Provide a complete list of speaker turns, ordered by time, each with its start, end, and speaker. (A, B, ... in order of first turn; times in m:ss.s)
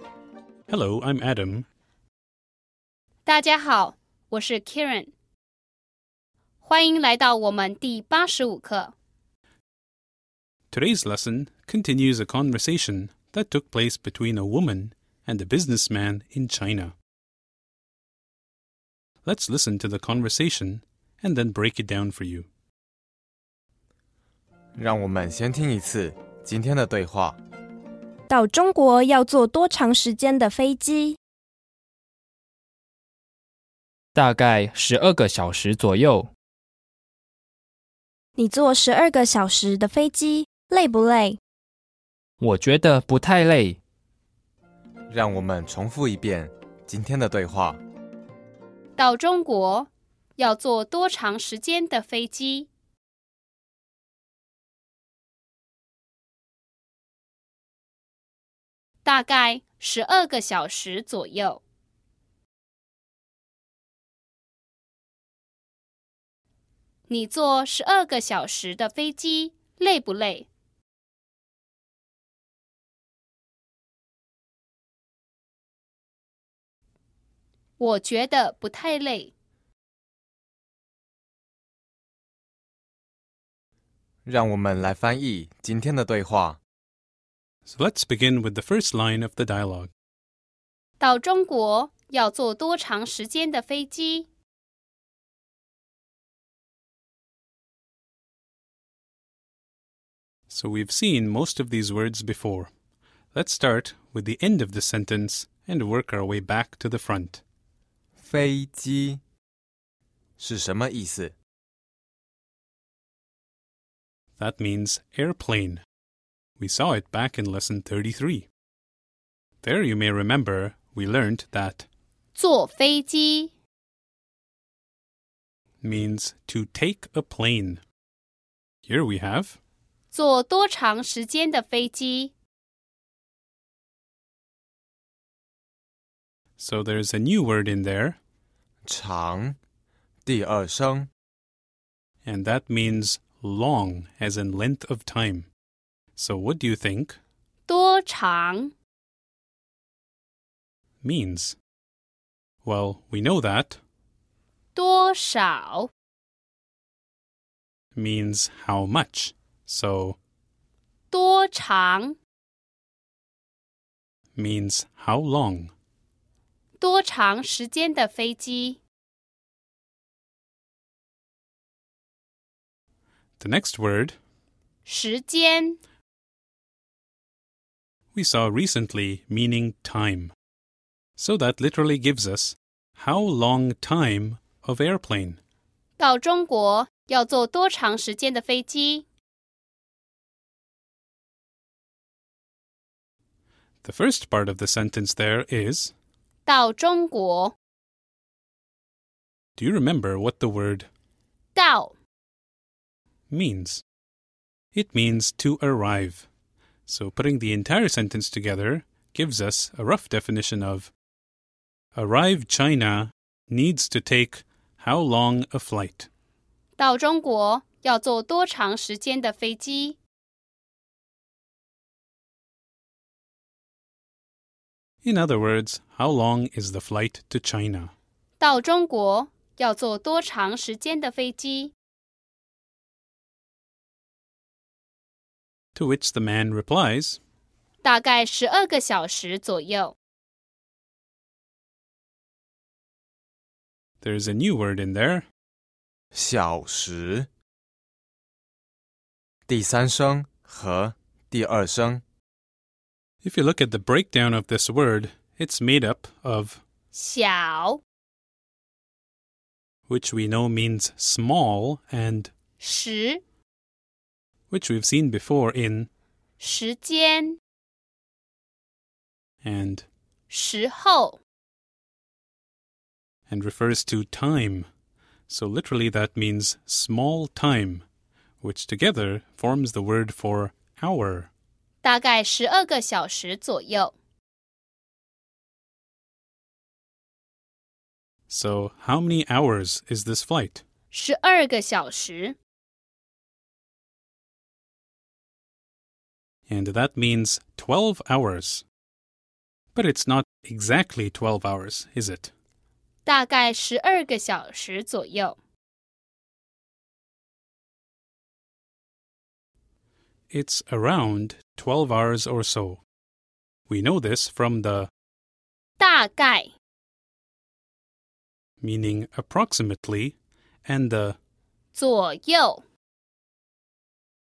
0:00.7-0:01.7 A
0:03.2-0:05.1 B
0:06.6-0:08.9 B
0:10.7-0:16.9 A
0:19.2-0:22.5 A
0:24.8-0:27.4 C
0:28.3-0:31.2 D
0:34.1-0:36.3 E
0:38.4-0:41.4 D
0:42.4-0:43.8 E
0:45.1-0:47.8 C
0:49.0-0:52.7 B
0:59.0-1:01.6 B
1:07.1-1:10.5 B
1:17.8-1:19.3 B
1:24.2-1:26.6 C
1:27.6-1:29.9 A
1:31.0-1:34.3 B
1:40.5-1:42.7 A
1:43.3-1:47.4 A
1:48.2-1:49.2 C
1:50.4-1:51.3 C
1:54.4-1:55.8 A
1:56.6-1:58.5 A
1:59.6-2:01.9 A
2:02.3-2:03.5 B
2:05.8-2:07.8 A
2:08.8-2:09.6 A
2:10.1-2:12.3 B
2:16.6-2:18.2 A
2:18.8-2:19.6 C
2:20.2-2:21.1 C
2:22.2-2:25.5 A
2:26.2-2:27.2 A
2:27.7-2:28.7 B
2:31.0-2:31.6 A
2:32.6-2:33.8 A
2:34.7-2:35.9 B
2:37.9-2:40.2 A
2:41.1-2:42.2 B
2:44.3-2:45.7 A
2:46.8-2:48.8 B
2:53.4-2:54.2 A
2:54.8-2:55.8 B
2:58.1-3:00.3 A
3:01.2-3:05.4 A
3:06.0-3:09.0 B
3:13.8-3:15.9 A
3:16.4-3:17.6 B
3:19.6-3:20.9 A
3:21.5-3:21.9 B
3:23.3-3:23.8 A
3:24.7-3:26.2 A
3:26.9-3:30.9 A
3:31.9-3:36.1 A
3:36.8-3:40.0 B
3:45.0-3:47.9 A
3:48.4-3:51.7 B
3:55.7-3:57.2 A
3:57.8-4:00.0 B
4:04.0-4:05.3 A
4:06.1-4:07.3 C
4:09.5-4:12.0 C
4:13.2-4:16.6 A
4:16.9-4:17.8 B
4:19.9-4:22.3 A
4:22.6-4:23.2 B
4:24.5-4:25.9 A
4:26.4-4:27.4 B
4:29.4-4:29.8 A
4:30.3-4:31.2 B
4:33.3-4:34.7 A
4:35.3-4:37.8 A
4:38.4-4:41.3 A
4:41.8-4:43.9 B
4:48.3-4:50.6 A
4:50.9-4:52.4 B
4:56.5-4:58.6 A
4:59.7-5:02.3 A
5:03.0-5:05.4 B
5:10.3-5:12.8 A
5:13.7-5:14.9 A
5:15.8-5:16.5 B
5:18.6-5:21.2 A
5:21.7-5:22.6 B